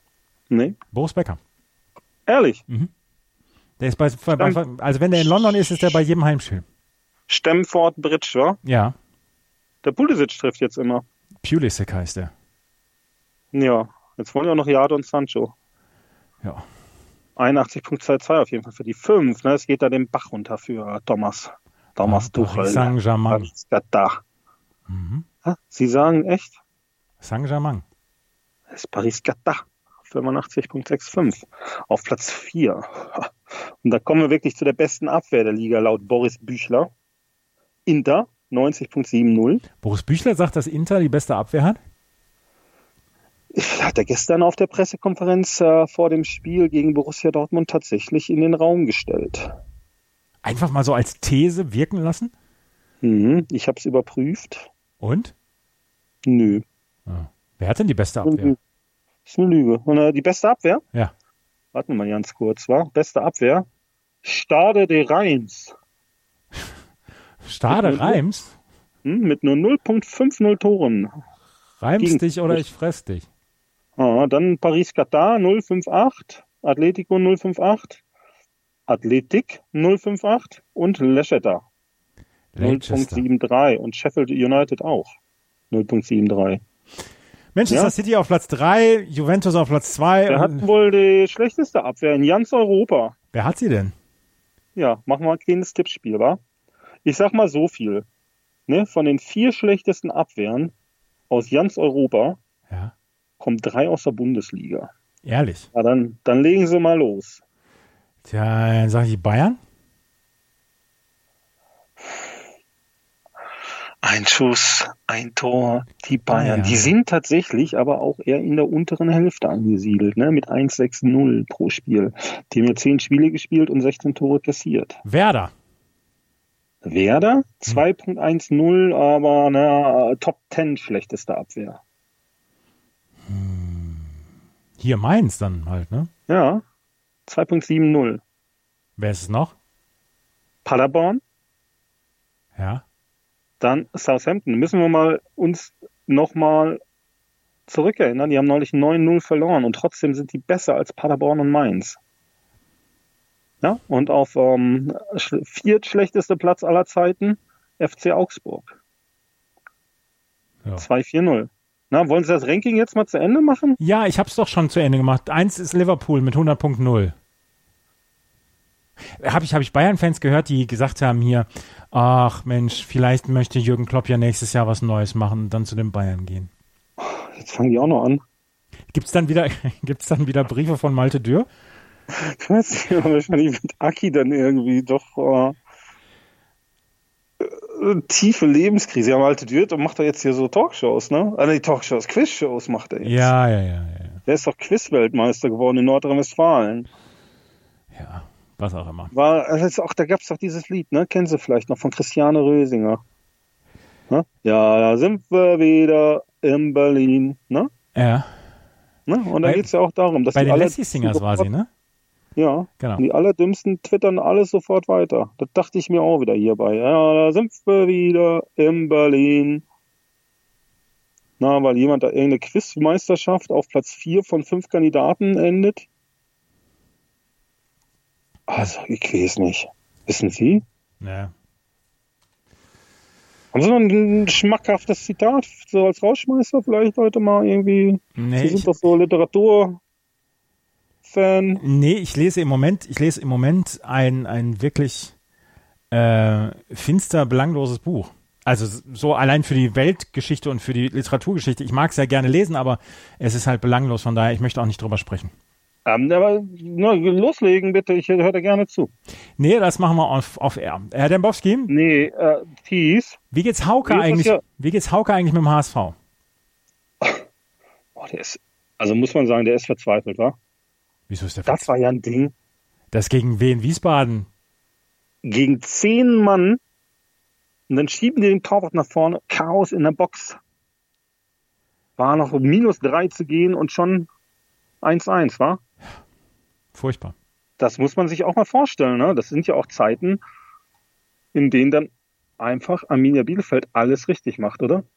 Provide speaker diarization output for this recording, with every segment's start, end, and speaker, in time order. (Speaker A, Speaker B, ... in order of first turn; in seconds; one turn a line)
Speaker A: 0.5-0.8
Speaker B: 0.9-1.4
Speaker A: 2.3-2.6
Speaker B: 3.8-6.6
Speaker A: 5.2-6.0
Speaker A: 7.3-8.6
Speaker B: 8.6-8.9
Speaker A: 9.8-11.1
Speaker B: 11.4-12.3
Speaker A: 13.5-15.5
Speaker A: 17.4-24.2
Speaker B: 22.0-23.5
Speaker B: 24.9-25.3
Speaker A: 25.4-26.6
Speaker B: 27.2-27.8
Speaker A: 28.7-33.3
Speaker A: 33.8-36.9
Speaker A: 37.9-39.6
Speaker B: 39.8-41.8
Speaker A: 43.5-49.5
Speaker B: 50.4-52.3
Speaker A: 53.0-54.7
Speaker B: 55.0-55.3
Speaker A: 56.3-56.6
Speaker B: 57.1-58.5
Speaker A: 58.2-58.6
Speaker A: 59.3-60.8
Speaker A: 61.7-63.7
Speaker A: 64.2-65.8
Speaker B: 67.4-68.5
Speaker A: 67.7-68.2
Speaker A: 69.0-71.1
Speaker B: 71.8-73.3
Speaker A: 72.0-72.6
Speaker A: 74.0-78.0
Speaker A: 78.9-81.6
Speaker B: 82.5-83.2
Speaker A: 82.6-85.2
Speaker A: 85.7-86.6
Speaker B: 87.5-90.6
Speaker A: 87.7-87.9
Speaker A: 90.3-93.1
Speaker B: 93.3-93.9
Speaker A: 94.8-96.4
Speaker A: 97.0-98.1
Speaker A: 98.7-100.7
Speaker A: 101.3-102.4
Speaker A: 103.4-104.9
Speaker B: 105.2-105.7
Speaker A: 105.7-107.4
Speaker B: 108.2-109.6
Speaker A: 114.0-125.0
Speaker B: 116.3-116.9
Speaker B: 125.0-125.5
Speaker A: 126.8-131.8
Speaker B: 133.3-134.1
Speaker B: 134.8-136.1
Speaker A: 136.3-136.6
Speaker A: 137.3-138.2
Speaker B: 139.0-139.6
Speaker A: 140.7-141.2
Speaker B: 142.6-142.8
Speaker A: 143.6-146.8
Speaker A: 147.7-152.0
Speaker A: 153.6-158.8
Speaker A: 160.8-163.8
Speaker B: 163.8-167.2
Speaker B: 169.2-176.5
Speaker A: 177.0-178.2
Speaker B: 178.9-181.5
Speaker A: 182.1-185.6
Speaker A: 187.4-193.3
Speaker B: 193.0-194.2
Speaker A: 194.3-196.9
Speaker B: 197.9-199.1
Speaker A: 199.1-203.0
Speaker A: 204.1-207.7
Speaker B: 207.9-208.3
Speaker A: 209.1-211.5
Speaker B: 209.4-209.7
Speaker B: 210.3-211.7
Speaker A: 212.4-219.6
Speaker A: 221.4-225.9
Speaker A: 228.5-230.6
Speaker B: 231.0-231.3
Speaker A: 233.5-239.8
Speaker B: 238.2-238.8
Speaker A: 241.0-241.6
Speaker B: 241.6-245.1
Speaker B: 245.9-255.3
Speaker A: 255.9-258.9
Speaker B: 259.4-261.7
Speaker A: 261.7-263.2
Speaker B: 263.3-265.9
Speaker A: 263.9-264.4
Speaker A: 268.0-270.4
Speaker B: 271.1-271.7
Speaker A: 271.5-272.3
Speaker B: 272.9-274.3
Speaker A: 275.2-276.6
Speaker A: 277.7-280.4
Speaker A: 282.0-284.1
Speaker A: 284.8-285.6
Speaker B: 286.7-287.1
Speaker A: 287.6-290.2
Speaker A: 291.3-294.9